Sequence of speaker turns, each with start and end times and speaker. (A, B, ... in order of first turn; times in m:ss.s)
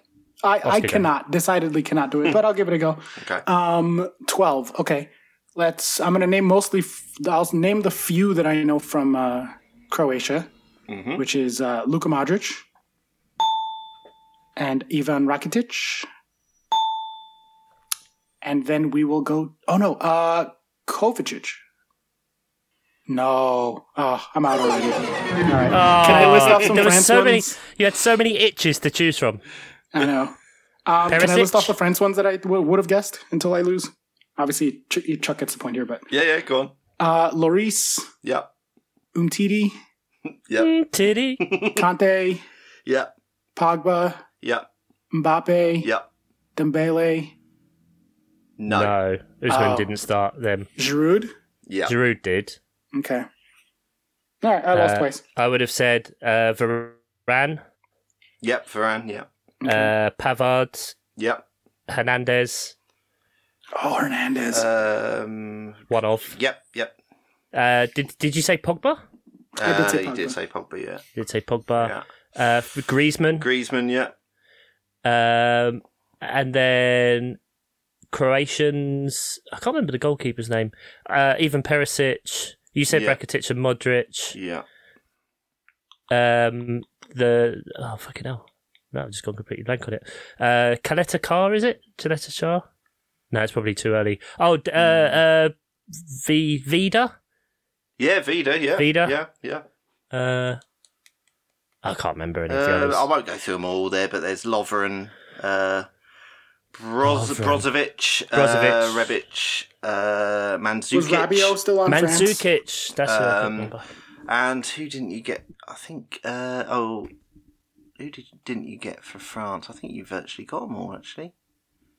0:00.4-0:10.5 A
0:00.6-0:01.1 B
0:03.2-0:03.4 C
0:10.9-0:11.2 C
0:11.2-0:12.7 A
0:14.6-0:16.1 A
0:18.4-0:21.6 A
0:23.1-0:27.6 A
0:25.7-0:29.4 B
0:29.9-0:30.4 A
0:30.9-0:36.0 A
0:31.1-0:31.7 B
0:36.1-0:36.7 C
0:37.0-0:38.1 A
0:38.2-0:38.5 C
0:39.1-0:39.7 A
0:40.6-0:41.4 B
0:41.4-0:41.8 C
0:41.8-0:42.4 A
0:42.9-0:43.1 C
0:43.6-0:44.2 A
0:44.4-0:44.7 C
0:45.1-0:45.9 A
0:46.6-0:47.4 A
0:48.6-0:48.9 C
0:48.7-0:50.7 B
0:49.5-0:49.9 A
0:50.8-0:51.3 A
0:51.7-0:52.0 C
0:51.9-0:52.6 B
0:52.9-0:53.3 A
0:54.4-0:55.2 A
0:54.7-0:57.6 B
0:58.4-0:59.3 C
0:59.6-0:59.9 A
0:59.6-1:00.9 B
1:01.2-1:01.4 C
1:01.9-1:02.7 B
1:03.8-1:04.7 A
1:04.5-1:07.0 C
1:05.9-1:06.4 B
1:07.5-1:09.0 B
1:09.6-1:11.0 C
1:09.6-1:10.4 A
1:11.2-1:13.4 B
1:11.8-1:12.0 C
1:13.4-1:14.1 C
1:15.0-1:17.4 B
1:18.1-1:24.4 B
1:22.9-1:23.2 C
1:24.3-1:24.6 C
1:26.1-1:32.6 B
1:33.3-1:35.5 B
1:34.8-1:35.1 C
1:36.1-1:37.1 B
1:38.0-1:39.6 C
1:38.8-1:39.1 B
1:40.1-1:40.6 B
1:41.8-1:43.0 B
1:42.5-1:45.9 C
1:46.7-1:51.6 C
1:47.0-1:47.7 B
1:48.3-1:49.1 B
1:50.9-1:52.4 A
1:51.9-1:53.8 B
1:53.0-1:53.7 C
1:54.3-1:57.1 C
1:58.0-2:01.3 C